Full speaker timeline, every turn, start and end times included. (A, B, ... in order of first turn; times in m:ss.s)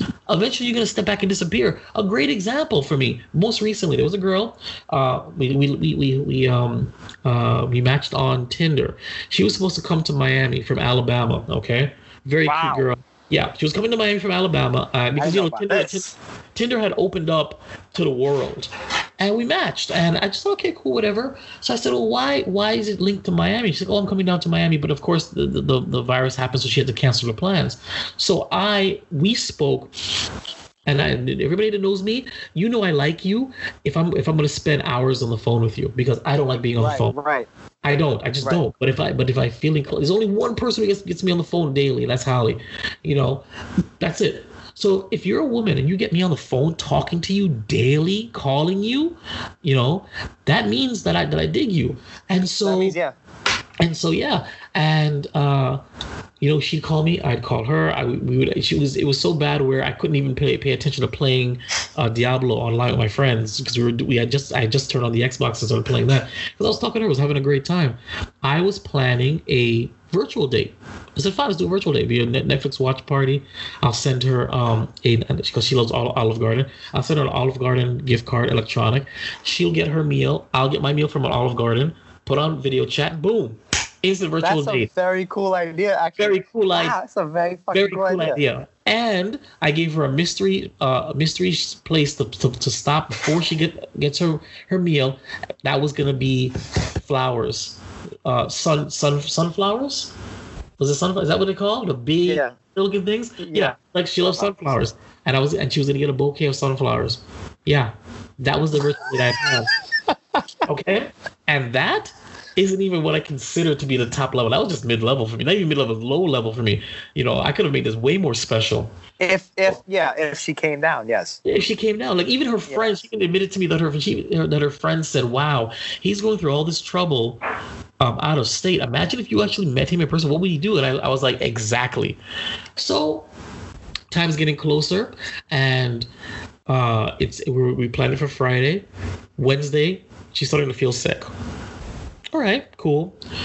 0:00.3-0:29.9 A
0:12.4-0:12.8 B
0:15.2-0:16.1 B
0:30.9-0:37.2 A
0:36.8-0:37.5 B
0:37.8-0:43.4 A
0:44.0-0:53.0 A
0:52.6-0:53.1 B
0:53.8-0:55.8 A
0:56.4-1:24.9 A
1:24.4-1:28.4 B
1:26.2-1:26.9 A
1:27.7-1:40.1 A
1:40.8-1:49.7 A
1:42.2-1:42.5 B
1:43.4-1:43.8 B
1:50.6-1:58.9 A
1:59.2-2:01.4 B
2:01.4-2:07.4 A
2:02.7-2:03.0 B
2:08.0-2:12.2 A
2:12.8-2:13.3 A
2:14.1-2:16.1 A
2:16.7-2:18.8 A
2:19.4-2:21.3 A
2:22.3-2:23.1 A